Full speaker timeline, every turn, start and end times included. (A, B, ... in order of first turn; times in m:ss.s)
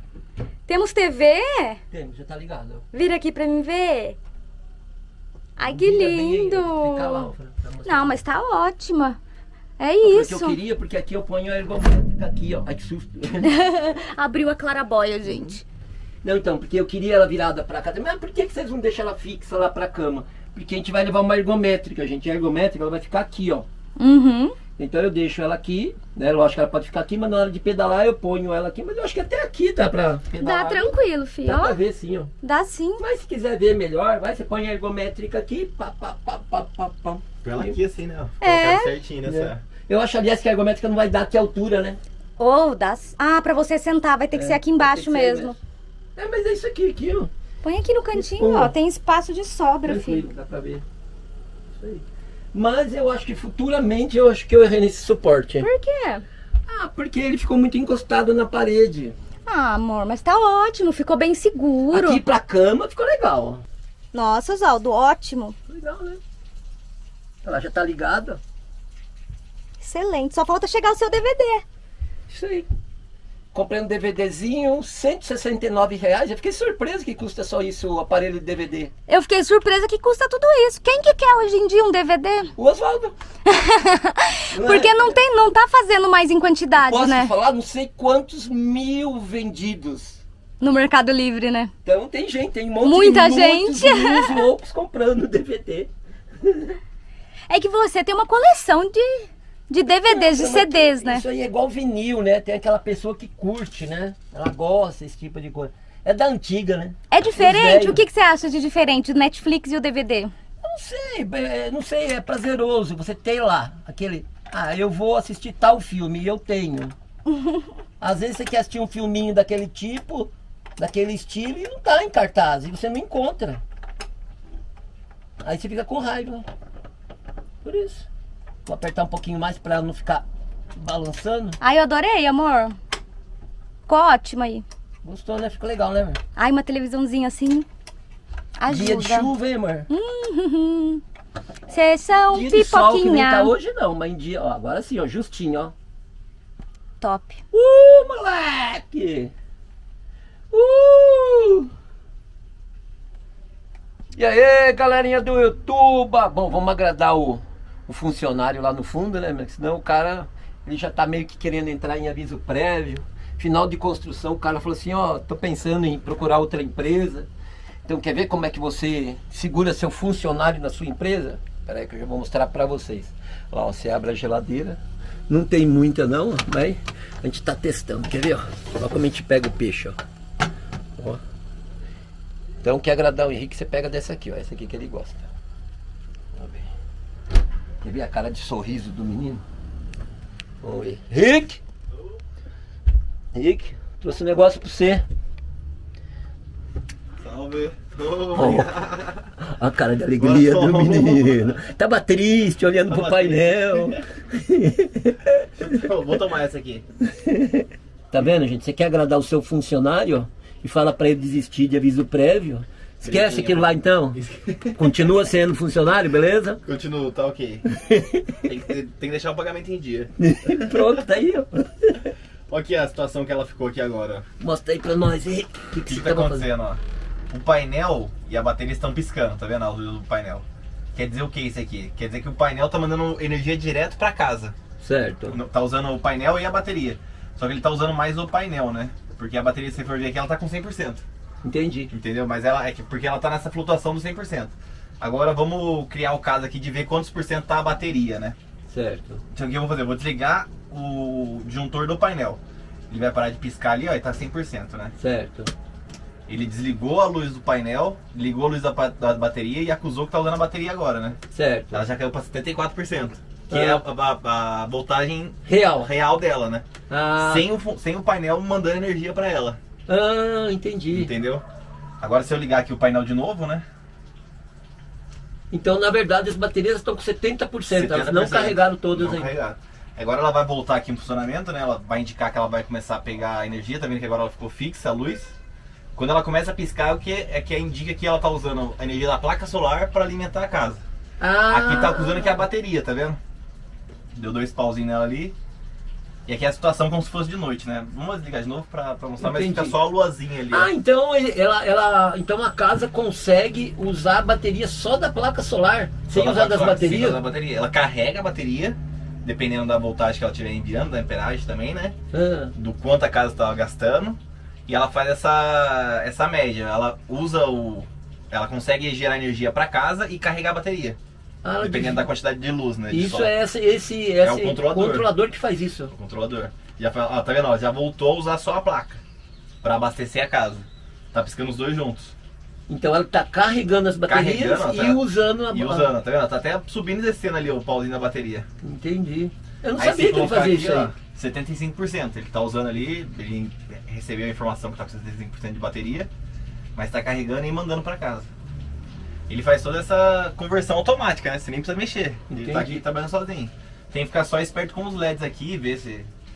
0:00.7-0:01.8 A
0:01.9-0:02.8 B
0:02.9-0:04.2 A
0:05.6-0:07.3 A
0:05.7-0:08.2 B
0:07.8-0:09.2 A
0:09.8-0:10.6 A
0:10.0-0:13.5 B
0:13.4-0:15.6 A
0:15.2-0:15.6 B
0:16.2-0:23.7 B
0:24.0-0:24.6 A
0:24.8-0:32.3 B
0:30.4-0:31.8 A
0:32.4-0:33.0 A
0:33.0-0:37.8 B
0:37.4-0:39.6 C
0:38.4-0:38.9 A
0:39.2-0:42.0 B
0:42.4-0:45.6 A
0:44.3-0:45.6 B
0:46.2-0:47.3 B
0:47.6-0:50.2 A
0:48.1-0:48.7 B
0:49.8-0:50.8 B
0:51.8-0:55.7 B
0:55.6-0:56.2 A
0:56.7-0:59.1 B
0:59.4-1:02.2 A
1:01.9-1:03.6 B
1:04.1-1:05.6 A
1:05.7-1:06.2 B
1:07.4-1:08.4 B
1:09.8-1:11.6 A
1:12.3-1:12.7 B
1:13.5-1:18.9 B
1:19.1-1:22.5 A
1:22.6-1:23.1 B
1:23.5-1:27.3 A
1:24.5-1:25.2 B
1:26.7-1:30.2 B
1:30.6-1:31.7 A
1:31.8-1:35.9 B
1:32.8-1:34.5 A
1:36.4-1:36.8 B
1:37.5-1:41.2 A
1:40.0-1:48.0 B
1:47.1-1:50.3 A
1:50.6-1:56.9 B
1:58.0-2:03.6 B
2:05.4-2:06.5 B
2:07.6-2:08.1 B
2:08.6-2:11.6 B
2:11.6-2:12.7 A
2:13.9-2:14.6 A
2:15.0-2:16.2 B
2:16.4-2:17.6 A
2:18.6-2:19.3 A
2:18.7-2:19.9 B
2:19.9-2:21.0 A
2:21.7-2:23.5 A
2:22.3-2:25.7 B
2:27.0-2:27.4 A
2:27.5-2:29.3 B
2:30.5-2:31.7 B
2:34.1-2:47.3 B
2:47.8-3:00.0 B
3:02.6-3:05.2 B
3:06.4-3:06.7 B
3:07.8-3:09.4 B
3:10.6-3:11.6 B
3:13.3-3:15.0 B
3:17.2-3:19.2 C
3:18.3-3:18.7 B
3:19.4-3:25.4 B
3:20.2-3:21.6 C
3:22.9-3:24.0 C
3:25.6-3:26.8 C
3:27.3-3:34.2 B
3:33.0-3:35.2 C
3:34.8-3:36.6 B
3:36.6-3:37.6 C
3:37.8-3:38.4 B
3:38.4-3:40.1 C
3:40.2-3:42.0 B
3:42.5-3:44.2 C
3:44.4-3:46.5 B
3:45.9-3:54.6 C
3:54.8-3:55.4 B
3:55.3-4:01.0 C
4:01.4-4:01.9 B
4:01.9-4:08.4 C
4:08.7-4:09.2 B
4:09.3-4:14.9 C
4:15.0-4:15.5 B
4:16.3-4:21.2 C
4:21.3-4:21.8 B
4:21.7-4:26.6 C
4:23.5-4:23.8 B
4:25.4-4:25.9 B
4:26.9-4:27.5 B
4:27.2-4:29.6 C
4:29.9-4:31.1 B
4:30.9-4:31.4 C
4:32.0-4:33.6 C
4:35.5-4:39.3 B
4:37.7-4:45.4 C
4:45.9-4:50.8 C
4:51.2-4:52.4 B
4:51.5-4:53.2 C
4:54.1-4:55.4 C
4:56.2-5:00.7 C
4:59.2-4:59.8 B
5:00.5-5:07.2 B
5:06.1-5:12.0 C
5:12.1-5:12.5 B
5:12.5-5:21.0 C
5:21.4-5:22.1 B
5:21.6-5:23.3 C
5:22.9-5:25.9 B
5:24.2-5:25.1 C
5:25.9-5:29.0 C
5:29.6-5:32.1 C
5:32.7-5:35.9 B
5:34.1-5:38.4 C
5:38.6-5:40.9 B
5:39.8-5:46.1 C
5:46.8-5:48.3 C
5:49.3-5:56.1 C
5:52.3-5:52.8 B